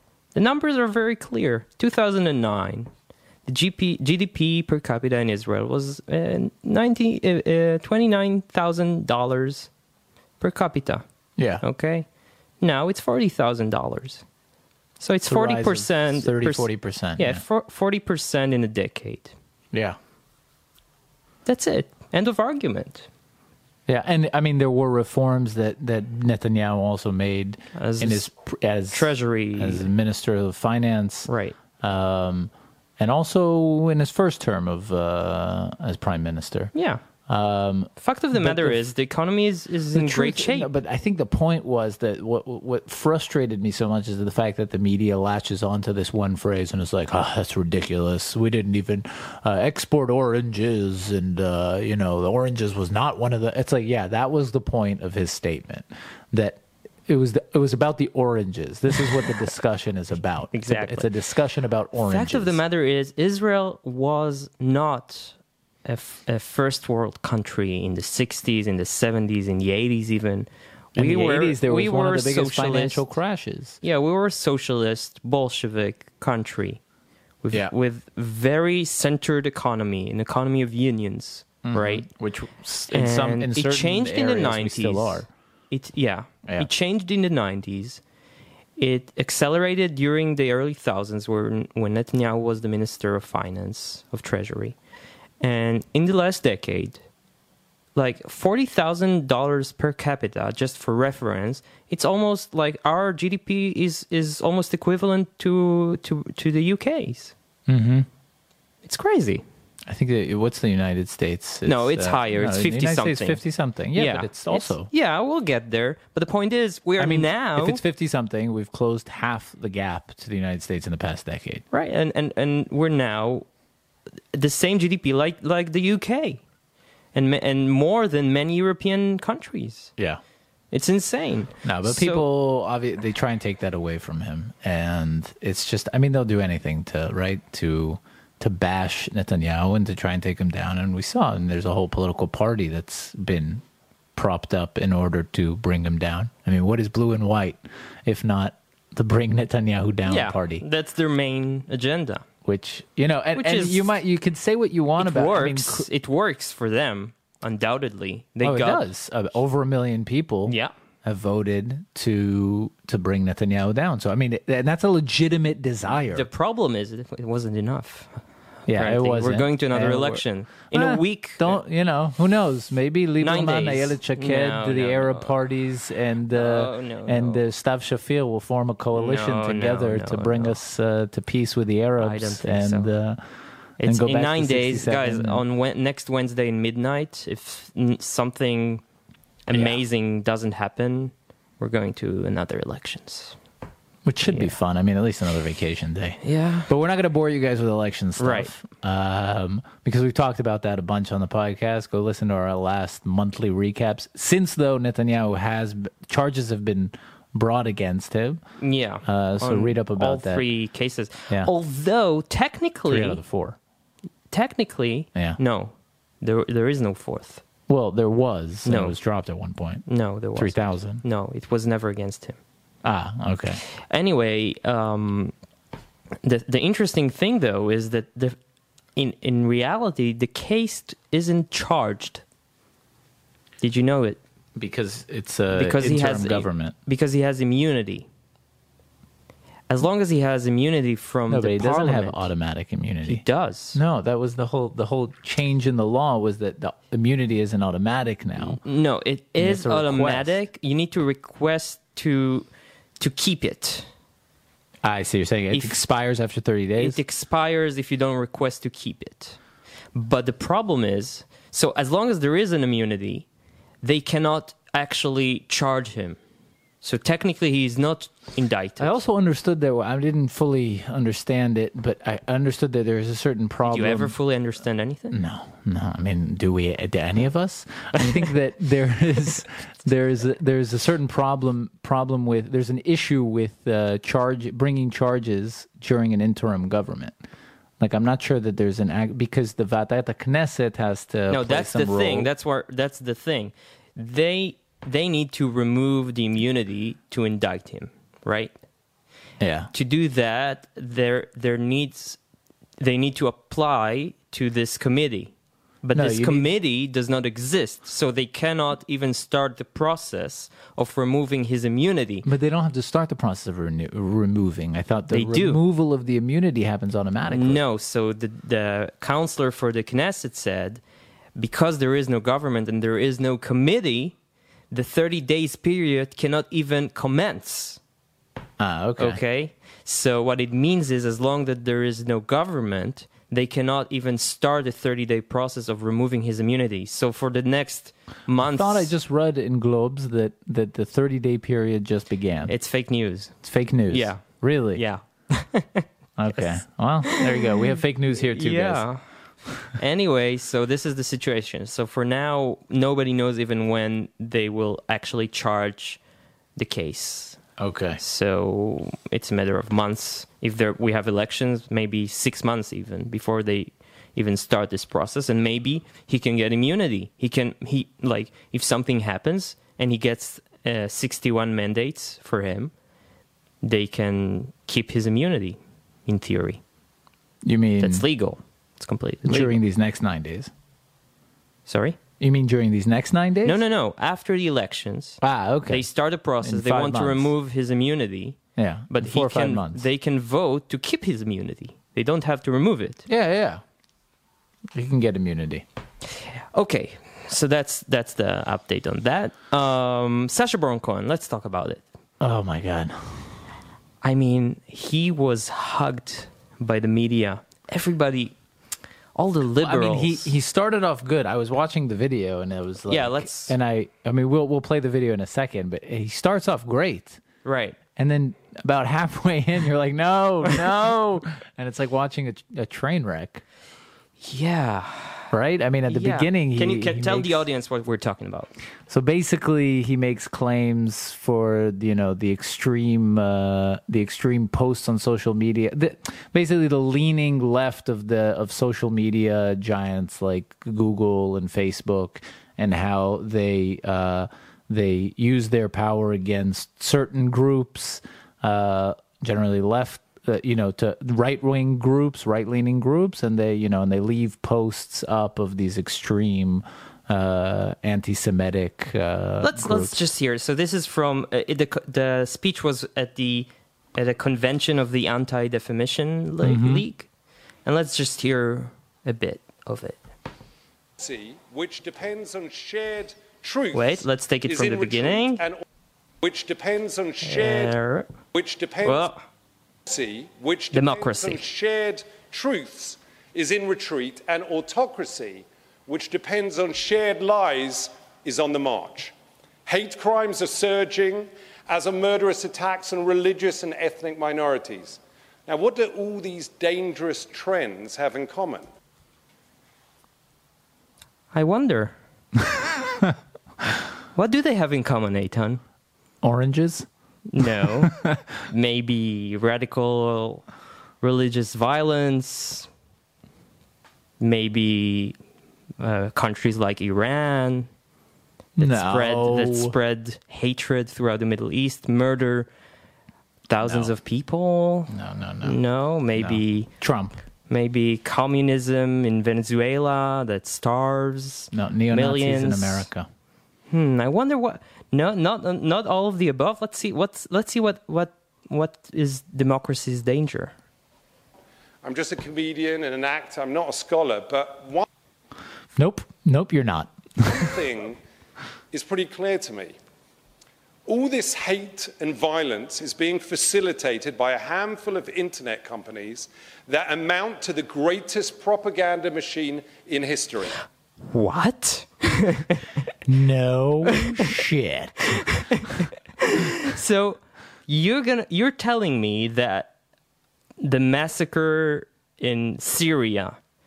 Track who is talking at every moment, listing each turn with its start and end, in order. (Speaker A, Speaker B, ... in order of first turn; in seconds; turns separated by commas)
Speaker A: 0.3-2.9, Speaker A: 3.5-9.7, Speaker A: 10.4-11.0, Speaker B: 11.4-11.6, Speaker A: 11.6-12.1, Speaker A: 12.6-14.2, Speaker A: 15.0-19.3, Speaker B: 15.2-17.4, Speaker A: 21.5-23.1, Speaker B: 23.9-31.3, Speaker A: 27.8-28.3, Speaker A: 28.9-29.9, Speaker A: 31.3-31.6, Speaker B: 31.8-36.7, Speaker A: 36.7-37.0, Speaker B: 37.3-38.8, Speaker A: 38.0-40.7, Speaker B: 39.9-62.6, Speaker A: 60.5-61.1, Speaker A: 62.0-65.3, Speaker A: 65.9-73.0, Speaker B: 71.0-73.8, Speaker A: 73.8-76.8, Speaker A: 77.4-82.1, Speaker B: 81.6-85.3, Speaker A: 82.9-88.0, Speaker A: 88.8-94.8, Speaker A: 95.4-97.0, Speaker A: 98.0-107.3, Speaker B: 107.7-108.1, Speaker A: 108.8-109.4, Speaker B: 109.9-114.9, Speaker A: 111.7-113.4, Speaker A: 114.0-117.8, Speaker B: 117.0-121.6, Speaker A: 121.7-123.5, Speaker A: 124.3-126.4, Speaker A: 127.1-129.9, Speaker A: 130.7-132.2, Speaker B: 131.6-143.6, Speaker B: 144.2-150.6, Speaker A: 150.1-152.2, Speaker B: 152.4-155.9, Speaker A: 153.3-153.9, Speaker A: 155.0-158.8, Speaker B: 158.4-166.3, Speaker A: 160.5-160.7, Speaker A: 166.1-168.2, Speaker B: 168.7-183.2, Speaker A: 168.7-171.6, Speaker A: 173.2-175.4, Speaker A: 176.3-177.4, Speaker A: 178.9-180.6, Speaker A: 182.0-182.9, Speaker A: 183.8-188.8, Speaker B: 183.8-185.4, Speaker A: 189.5-193.4, Speaker B: 189.5-189.8, Speaker B: 194.1-208.4, Speaker A: 194.3-194.5, Speaker A: 196.2-196.7, Speaker A: 198.2-198.5, Speaker A: 208.6-213.2, Speaker B: 209.1-210.4, Speaker B: 212.9-213.6, Speaker A: 214.3-217.4, Speaker B: 217.7-219.8, Speaker A: 218.7-218.9, Speaker A: 219.9-222.4, Speaker B: 220.4-221.0, Speaker B: 222.8-223.6, Speaker A: 223.8-225.3, Speaker A: 226.2-228.4, Speaker A: 229.0-232.2, Speaker A: 233.6-234.2, Speaker B: 234.6-236.8, Speaker A: 235.5-238.1, Speaker A: 239.7-242.3, Speaker B: 241.3-243.2, Speaker A: 243.1-243.8, Speaker B: 243.7-248.6, Speaker A: 248.4-252.5, Speaker B: 249.4-250.4, Speaker A: 253.0-253.9, Speaker B: 254.8-257.0, Speaker A: 255.5-255.8, Speaker A: 256.8-259.4, Speaker A: 259.9-263.3, Speaker A: 263.8-266.2, Speaker A: 266.8-268.9, Speaker B: 268.8-274.1, Speaker A: 273.6-275.2, Speaker B: 275.1-287.1, Speaker B: 287.8-292.3, Speaker A: 291.3-298.5, Speaker B: 299.4-299.7, Speaker A: 299.7-302.2, Speaker A: 302.8-305.3, Speaker A: 305.8-312.3, Speaker B: 305.9-306.5, Speaker B: 312.2-317.6, Speaker A: 315.1-315.6, Speaker A: 317.3-320.8, Speaker A: 321.4-324.1, Speaker A: 324.7-327.8, Speaker B: 328.6-329.2, Speaker A: 329.0-338.9, Speaker B: 338.4-342.5, Speaker A: 342.5-343.4, Speaker B: 343.4-344.8, Speaker A: 343.9-349.0, Speaker B: 346.2-348.8, Speaker A: 349.8-356.0, Speaker A: 356.6-357.4, Speaker B: 357.6-358.0, Speaker A: 358.0-372.7, Speaker A: 373.6-376.6, Speaker B: 377.4-378.1, Speaker A: 377.8-379.6, Speaker B: 379.2-380.5, Speaker A: 381.7-382.0, Speaker B: 382.2-383.6, Speaker A: 383.4-388.4, Speaker B: 385.2-385.9, Speaker B: 386.4-387.3, Speaker B: 388.6-389.9, Speaker A: 388.9-393.0, Speaker B: 393.1-393.6, Speaker B: 394.8-395.6, Speaker A: 396.5-401.8, Speaker B: 402.2-403.2, Speaker A: 404.0-408.3, Speaker A: 409.1-410.3, Speaker B: 409.6-417.2, Speaker A: 412.9-413.6, Speaker A: 417.4-417.8, Speaker B: 418.0-423.4, Speaker A: 424.2-425.3, Speaker B: 425.3-427.4, Speaker A: 425.9-428.5, Speaker B: 428.9-460.0, Speaker A: 459.4-467.1, Speaker B: 466.4-466.9, Speaker A: 467.6-470.0, Speaker C: 471.0-475.6, Speaker A: 473.7-475.4, Speaker C: 476.2-477.7, Speaker A: 477.2-478.1, Speaker C: 478.3-479.1, Speaker A: 478.9-479.2, Speaker C: 479.9-489.1, Speaker A: 480.7-481.4, Speaker C: 489.7-498.7, Speaker A: 501.3-501.9, Speaker A: 504.1-505.6, Speaker B: 506.2-506.9, Speaker A: 507.3-507.9, Speaker B: 507.8-508.2, Speaker A: 508.5-510.4, Speaker A: 511.0-512.7, Speaker A: 514.2-515.2, Speaker A: 515.8-517.7, Speaker B: 518.6-519.7, Speaker A: 518.6-522.5, Speaker A: 523.5-524.9, Speaker B: 523.6-523.9, Speaker B: 524.9-525.6, Speaker A: 525.4-526.7, Speaker B: 526.2-527.2, Speaker A: 527.5-532.9, Speaker B: 531.5-533.1, Speaker A: 533.7-540.5, Speaker C: 541.8-544.9, Speaker B: 545.8-547.5, Speaker C: 547.3-548.0, Speaker C: 548.7-549.8, Speaker C: 550.9-560.6, Speaker A: 561.1-562.7, Speaker B: 563.1-565.2, Speaker A: 563.9-564.4, Speaker A: 565.1-569.7, Speaker A: 570.6-573.4